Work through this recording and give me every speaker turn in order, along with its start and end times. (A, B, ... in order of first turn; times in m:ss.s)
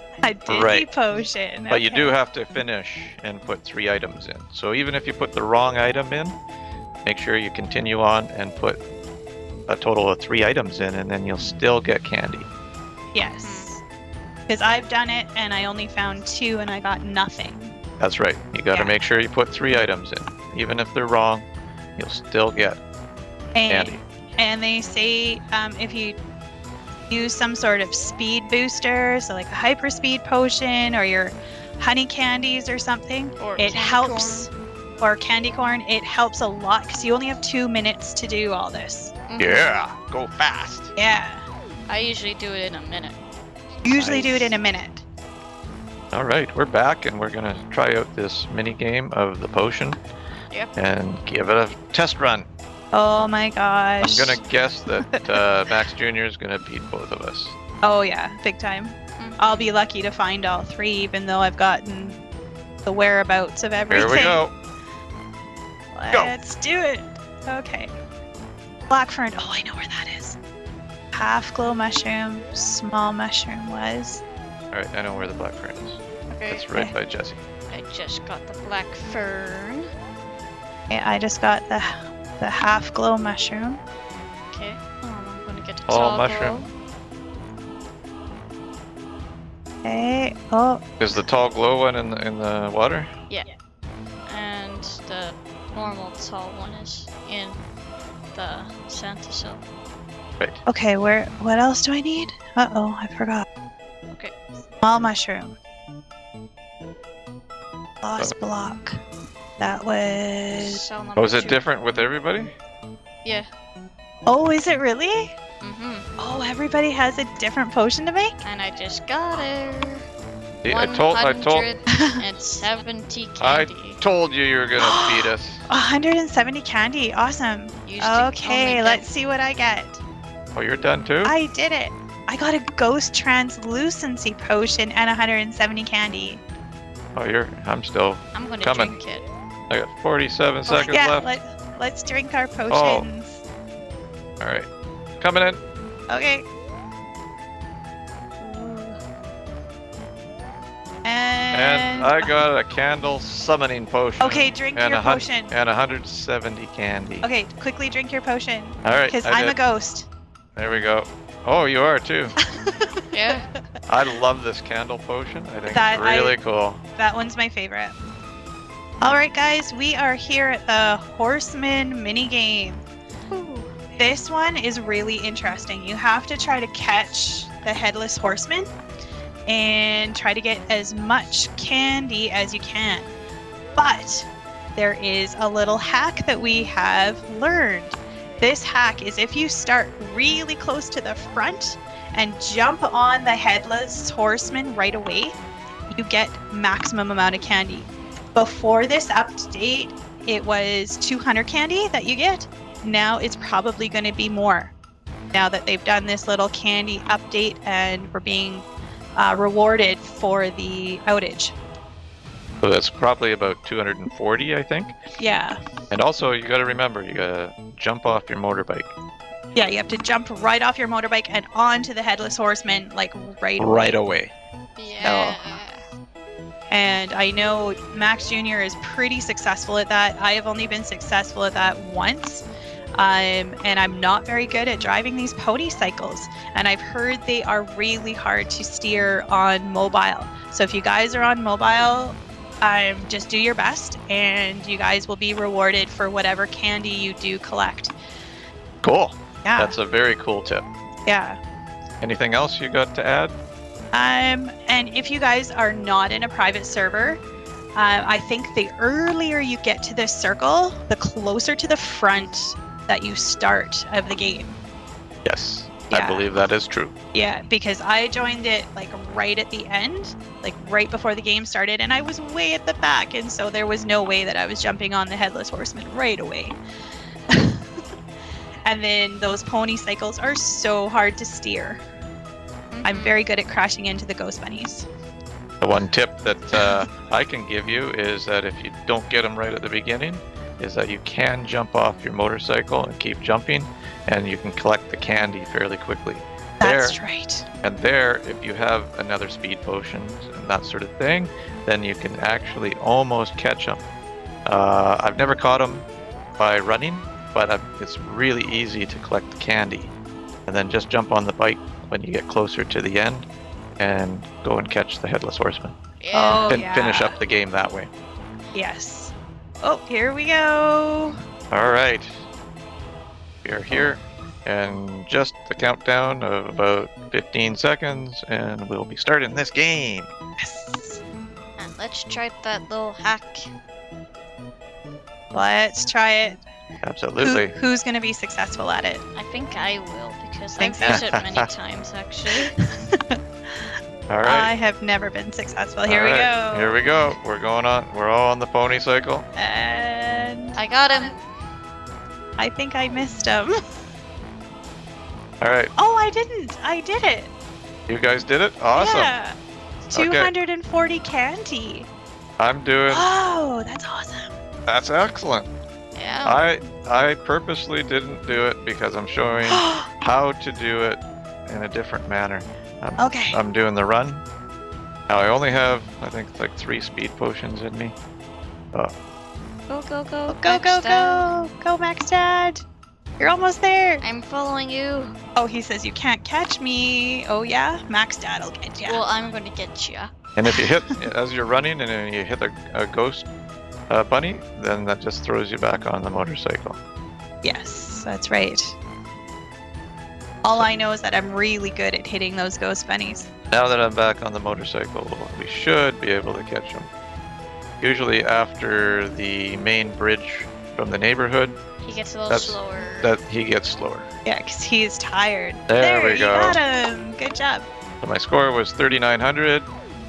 0:00.2-0:02.1 A
0:00.4-0:00.9 B
0:01.7-0:06.4 B
0:07.0-0:08.8 B
0:09.7-0:12.5 B
0:13.1-0:13.8 A
0:13.2-0:13.7 C
0:14.5-0:17.7 A
0:18.0-0:22.8 B
0:18.7-0:19.0 A
0:23.5-0:26.2 A
0:23.7-0:24.0 B
0:27.1-0:39.1 A
0:33.4-0:34.5 C
0:39.3-0:39.7 C
0:39.4-0:40.9 B
0:41.0-0:41.4 A
0:41.9-0:43.2 C
0:43.8-0:45.0 A
0:43.9-0:44.6 B
0:46.1-0:50.0 B
0:50.8-0:52.5 B
0:52.9-0:54.4 A
0:54.0-0:57.5 B
0:55.0-0:55.4 A
0:57.8-1:02.2 A
0:59.2-0:59.7 C
1:02.8-1:04.4 A
1:03.9-1:04.5 B
1:05.9-1:07.9 A
1:08.9-1:10.4 A
1:11.1-1:14.2 A
1:14.7-1:17.4 B
1:16.3-1:16.6 C
1:17.7-1:19.9 C
1:20.9-1:23.8 A
1:24.5-1:26.7 C
1:25.9-1:26.6 B
1:29.8-1:30.8 A
1:31.0-1:33.1 B
1:34.2-1:37.6 C
1:38.3-1:39.6 C
1:40.6-1:43.4 A
1:44.8-1:45.5 A
1:48.0-1:49.0 A
1:49.6-1:50.8 A
1:50.5-1:51.6 C
1:51.2-1:52.5 B
1:53.2-1:53.5 C
1:54.2-1:55.3 A
1:55.6-1:56.0 C
1:56.2-1:58.4 A
1:58.4-2:00.0 C
2:00.6-2:01.6 B
2:00.7-2:04.0 C
2:01.9-2:02.3 A
2:03.4-2:05.6 B
2:04.8-2:10.0 A
2:07.8-2:09.0 C
2:10.5-2:11.3 B
2:11.2-2:16.4 A
2:17.1-2:19.0 B
2:18.3-2:19.3 C
2:19.7-2:21.4 B
2:20.7-2:23.4 A
2:22.7-2:23.1 B
2:24.4-2:25.6 B
2:26.1-2:26.4 A
2:28.4-2:29.0 A
2:31.0-2:32.3 A
2:31.5-2:37.3 B
2:34.2-2:35.5 A
2:37.2-2:40.1 A
2:38.8-2:39.6 B
2:40.6-2:42.3 B
2:42.4-2:43.6 A
2:43.1-2:43.5 C
2:43.9-2:46.8 B
2:45.6-2:46.4 A
2:47.0-2:48.0 A
2:49.0-2:52.8 A
2:53.3-2:53.6 C
2:53.9-2:58.7 A
2:59.5-3:03.1 A
3:03.8-3:15.4 A
3:15.9-3:24.7 A
3:25.3-3:31.5 A
3:32.6-3:35.0 B
3:35.2-3:35.6 A
3:35.9-3:38.9 B
3:39.5-3:44.0 A
3:43.6-3:44.3 B
3:44.8-3:45.8 C
3:45.0-3:45.4 A
3:46.7-4:07.9 A
4:08.8-4:10.6 B
4:09.4-4:09.7 A
4:11.0-4:11.4 A
4:12.0-4:13.4 B
4:13.9-4:17.2 A
4:17.7-4:24.6 A
4:25.2-4:26.9 B
4:25.9-4:26.3 A
4:27.1-4:36.6 A
4:37.3-4:37.8 A
4:38.6-4:41.8 A
4:42.7-4:43.2 C
4:42.8-4:44.9 A
4:45.6-4:57.0 B
4:46.6-4:46.9 A
4:56.6-4:57.5 A
4:57.6-5:03.8 B
5:04.4-5:05.9 B
5:06.4-5:09.9 B
5:10.5-5:13.3 B
5:13.8-5:15.7 B
5:16.0-5:16.5 C
5:16.1-5:17.2 A
5:16.4-5:17.9 B
5:18.5-5:21.2 A
5:21.5-5:22.2 B
5:23.4-5:30.1 B
5:30.4-5:31.0 A
5:31.6-5:33.5 C
5:35.3-5:36.4 A
5:36.8-5:37.5 B
5:37.2-5:39.0 A
5:39.1-5:42.5 C
5:40.6-5:41.1 A
5:40.8-5:41.5 B
5:42.3-5:43.2 A
5:44.1-5:44.5 B
5:44.2-5:46.8 A
5:45.8-5:49.3 B
5:49.4-5:50.6 A
5:50.6-5:51.2 C
5:52.4-5:53.5 A
5:55.4-5:55.7 B
5:55.8-5:57.3 A
5:57.9-5:59.2 B
5:58.7-5:59.4 A
5:59.9-6:01.9 A
5:59.9-6:00.3 B
6:02.4-6:03.1 B
6:02.9-6:04.4 A
6:04.6-6:05.5 B
6:05.9-6:06.4 C
6:06.2-6:14.2 B
6:09.4-6:09.9 A
6:13.0-6:13.4 A
6:15.1-6:17.9 B
6:19.7-6:21.3 C
6:20.3-6:22.6 A
6:23.2-6:24.0 A
6:24.0-6:25.1 C
6:25.3-6:29.0 A
6:28.8-6:30.1 C
6:30.4-6:33.2 B
6:30.5-6:30.9 A
6:33.9-6:36.8 B
6:37.4-6:38.7 A
6:40.4-6:43.3 A
6:43.5-6:46.9 B
6:47.8-6:51.6 B
6:51.8-6:53.1 C
6:52.3-6:54.0 B
6:54.2-6:57.6 A
6:55.7-6:56.6 B
6:58.0-6:59.7 B